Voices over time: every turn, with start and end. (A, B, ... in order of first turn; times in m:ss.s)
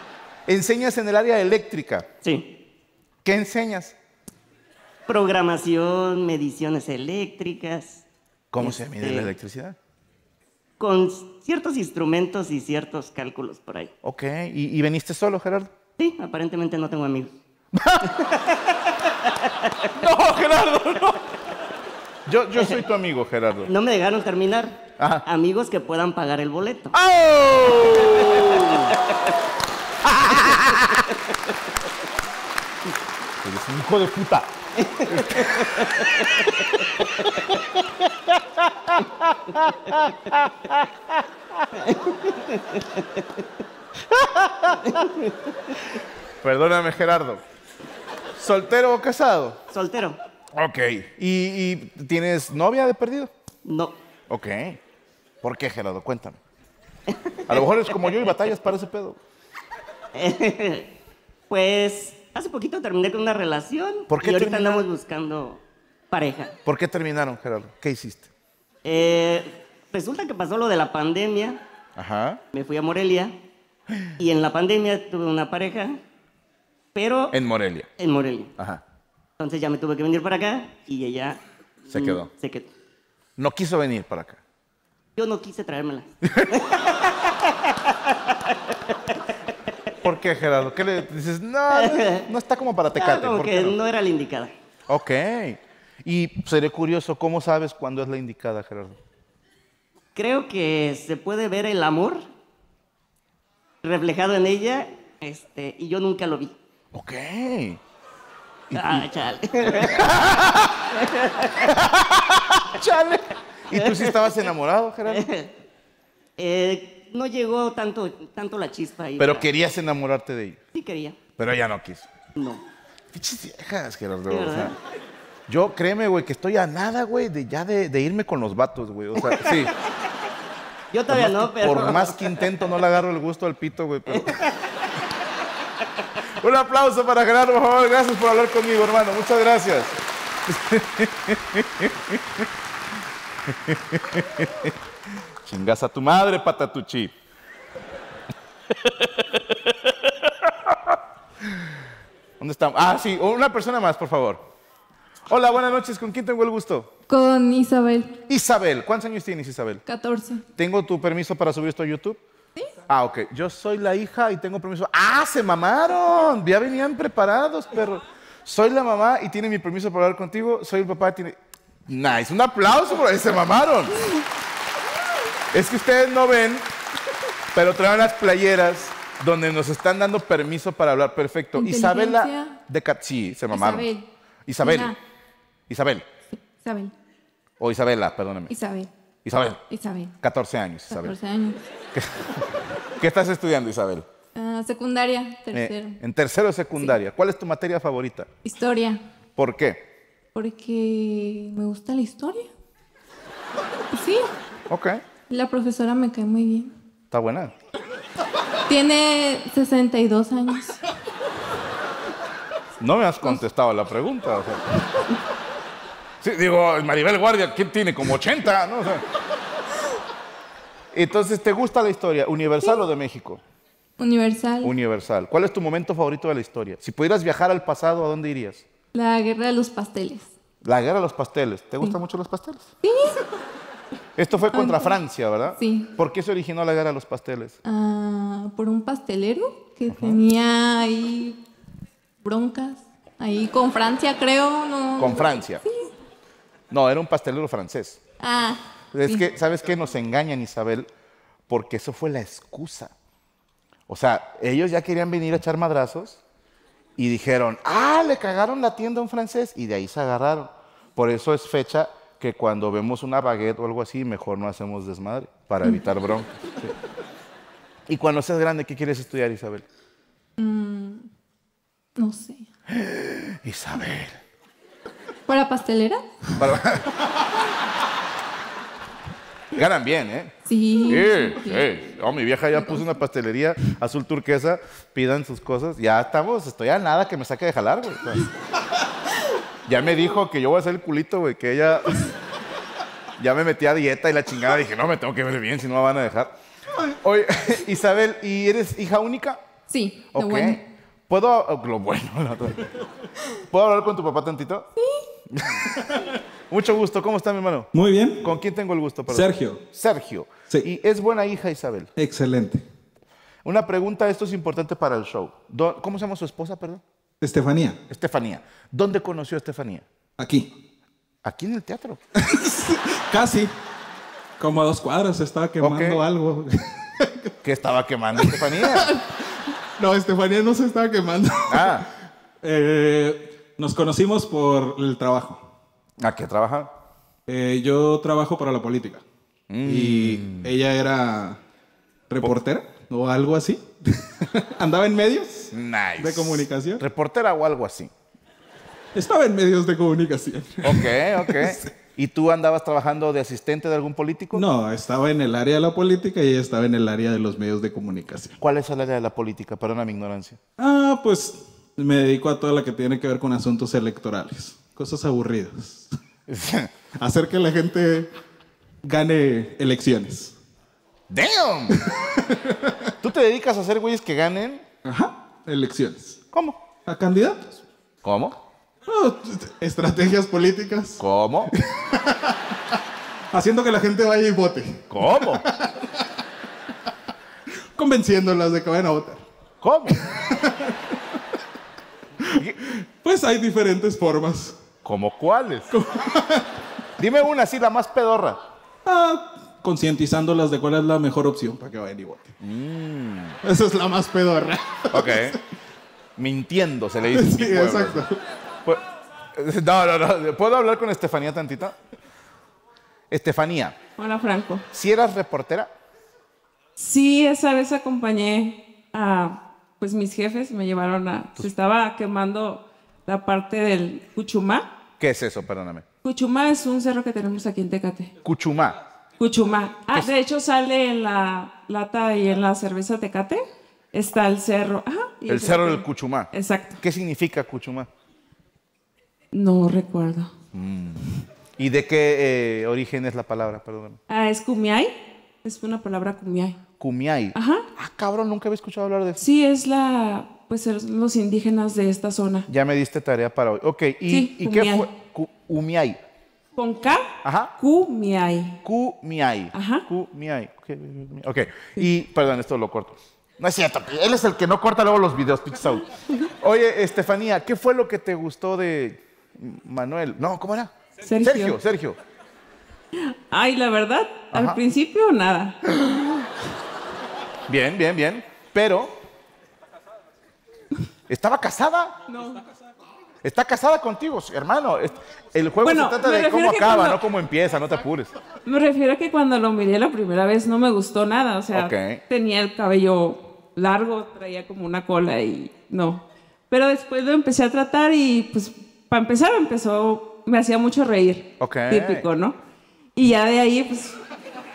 0:00.5-0:02.1 A
0:02.2-0:02.5 B
0:03.2-0:04.0 A
0:05.1-0:08.0 B
0:08.5-0:09.8 A
0:08.6-0:09.3 B
0:10.8-0:13.9 B
0:14.0-0:15.7 A
0:16.0-0:17.4 B
0:17.7-0:18.2 A
0:18.0-0:18.7 B
0:19.2-0:19.9 B
0:20.0-0:21.3 A
0:22.3-0:23.7 A
0:23.7-0:26.9 B
0:25.0-0:25.2 A
0:26.9-0:29.0 A
0:28.2-0:29.1 B
0:30.0-0:31.1 A
0:33.4-0:34.6 A
0:34.8-0:36.2 B
0:35.1-0:35.9 A
0:38.0-0:41.0 A
0:41.8-0:43.3 B
0:44.1-0:45.0 A
0:44.8-0:45.8 B
0:46.4-0:47.4 A
0:48.4-0:49.6 A
0:49.7-0:50.2 B
0:50.6-0:53.3 A
0:53.6-0:54.0 B
0:54.3-0:54.8 A
0:55.4-0:56.4 A
0:57.1-0:58.2 B
0:57.5-0:59.2 A
1:00.1-1:00.9 B
1:01.5-1:06.6 B
1:04.1-1:04.9 A
1:06.6-1:08.3 A
1:08.8-1:11.6 B
1:12.0-1:12.4 A
1:12.5-1:13.4 B
1:14.2-1:16.0 B
1:17.0-1:17.4 B
1:17.3-1:17.9 A
1:18.0-1:18.5 B
1:19.4-1:22.7 B
1:21.9-1:22.3 A
1:23.4-1:24.4 A
1:25.2-1:27.1 B
1:26.2-1:26.5 A
1:27.9-1:28.2 B
1:30.0-1:33.8 A
1:31.7-1:32.3 B
1:33.0-1:34.5 B
1:34.9-1:39.0 A
1:40.2-1:42.2 B
1:43.8-1:46.6 B
1:46.9-1:47.8 A
1:48.7-1:49.1 A
1:48.7-1:50.2 B
1:49.6-1:50.9 A
1:50.9-1:51.8 B
1:51.6-1:55.3 A
1:53.7-1:54.5 B
1:55.1-1:55.5 B
1:56.4-1:59.5 B
1:59.2-2:00.6 A
2:00.7-2:01.2 B
2:01.4-2:02.1 A
2:02.4-2:02.6 B
2:03.1-2:04.8 A
2:04.3-2:04.8 B
2:05.5-2:09.7 A
2:09.2-2:09.7 B
2:10.9-2:12.4 B
2:11.1-2:14.4 A
2:14.1-2:14.4 B
2:16.4-2:20.0 A
2:20.5-2:22.5 A
2:23.5-2:24.7 A
2:25.4-2:27.1 A
2:28.8-2:31.7 A
2:32.4-2:34.4 A
2:35.3-2:36.9 A
2:37.1-2:38.2 C
2:38.3-2:39.8 A
2:39.9-2:40.4 C
2:40.6-2:42.2 A
2:42.9-2:54.0 A
2:55.5-2:56.7 A
2:57.5-3:03.9 A
3:01.6-3:02.6 C
3:03.5-3:04.1 C
3:04.5-3:05.0 A
3:04.6-3:05.0 C
3:05.7-3:06.1 A
3:06.3-3:06.9 C
3:07.6-3:08.5 A
3:08.5-3:08.9 C
3:09.2-3:09.6 A
3:09.7-3:10.2 C
3:10.2-3:11.2 A
3:10.9-3:11.6 C
3:11.9-3:12.4 A
3:13.0-3:14.1 A
3:14.4-3:16.0 C
3:15.5-3:18.3 A
3:18.4-3:19.0 C
3:19.4-3:19.9 A
3:20.4-3:22.5 C
3:23.9-3:24.3 C
3:24.7-3:25.0 A
3:25.3-3:26.7 C
3:27.1-3:27.5 A
3:28.7-3:30.8 C
3:32.8-3:34.7 A
3:36.2-3:39.1 A
3:40.9-3:43.4 A
3:44.0-3:44.7 C
3:44.6-3:48.7 A
3:48.9-3:50.3 C
3:50.6-3:52.7 A
3:52.8-3:53.2 C
3:54.2-3:57.6 A
3:54.5-3:55.0 C
3:55.5-3:55.9 C
3:57.6-4:01.4 C
3:59.9-4:00.2 A
4:02.2-4:05.9 C
4:05.0-4:05.6 A
4:06.7-4:08.0 A
4:08.2-4:09.3 C
4:08.9-4:10.9 A
4:11.5-4:12.9 A
4:13.9-4:16.2 A
4:17.0-4:26.7 A
4:27.9-4:29.6 A
4:30.4-4:31.1 C
4:32.0-4:32.5 C
4:32.7-4:34.2 A
4:35.3-4:36.0 C
4:36.4-4:37.0 A
4:39.5-4:48.3 A
4:40.4-4:41.8 C
4:42.5-4:42.9 C
4:49.7-4:52.1 A
4:53.2-4:56.3 A
4:56.9-4:59.4 A
4:59.7-5:00.6 C
5:00.1-5:02.7 A
5:03.5-5:04.7 A
5:04.8-5:05.1 C
5:05.3-5:05.7 A
5:06.5-5:11.9 A
5:07.7-5:08.3 D
5:09.1-5:09.6 D
5:12.0-5:12.6 D
5:13.4-5:16.8 A
5:17.2-5:17.8 D
5:17.9-5:19.9 A
5:20.2-5:20.5 D
5:21.2-5:22.0 A
5:22.2-5:23.5 D
5:24.4-5:27.3 D
5:25.6-5:26.0 A
5:27.4-5:28.9 A
5:28.2-5:29.1 D
5:29.8-5:31.9 D
5:31.5-5:31.9 A
5:32.4-5:35.5 D
5:36.0-5:36.7 A
5:37.3-5:39.0 D
5:39.5-5:40.5 A
5:39.6-5:41.4 D
5:42.1-5:46.8 D
5:45.5-5:47.9 A
5:49.0-5:51.7 D
5:50.6-5:54.4 A
5:54.3-5:58.4 D
5:58.4-6:00.4 A
6:00.6-6:05.9 D
6:06.3-6:06.7 A
6:07.0-6:08.1 D
6:08.8-6:10.4 D
6:11.1-6:11.9 A
6:11.8-6:12.9 D
6:13.0-6:14.6 A
6:14.8-6:16.2 D
6:16.3-6:16.6 A
6:16.8-6:17.6 D
6:18.0-6:18.4 A
6:18.9-6:22.5 D
6:21.0-6:21.5 A
6:23.3-6:25.8 D
6:24.9-6:25.4 A
6:27.8-6:29.2 D
6:29.6-6:30.0 A
6:30.0-6:30.8 D
6:32.2-6:34.6 D
6:34.8-6:35.7 A
6:35.7-6:36.5 D
6:37.0-6:38.4 A
6:38.8-6:42.4 D
6:42.4-6:43.4 A
6:43.4-6:45.4 D
6:44.9-6:45.4 A
6:46.2-6:48.0 A
6:47.1-6:48.2 D
6:49.3-6:51.8 A
6:53.1-6:53.8 A
6:54.0-6:54.7 E
6:54.7-6:55.7 A
6:56.8-7:04.7 E
7:05.0-7:05.8 A
7:06.0-7:08.1 E
7:08.2-7:08.8 A
7:09.2-7:16.8 E
7:15.3-7:17.9 A
7:19.3-7:20.3 E
7:20.5-7:24.0 A
7:24.1-7:26.6 E
7:26.8-7:29.2 A
7:27.3-7:27.7 E
7:29.2-7:32.5 E
7:32.5-7:36.0 A
7:34.1-7:34.9 E
7:36.6-7:38.6 E
7:37.2-7:37.5 A
7:38.6-7:52.0 A
7:39.5-7:39.9 E
7:51.0-7:51.6 E
7:53.0-7:55.6 E
7:54.3-7:54.6 A
7:57.5-7:59.0 A
8:01.1-8:02.0 A
8:02.1-8:02.4 E
8:03.2-8:08.2 A
8:05.6-8:07.0 E
8:08.4-8:22.4 E
8:11.5-8:12.0 A
8:21.4-8:22.1 A
8:23.0-8:24.0 E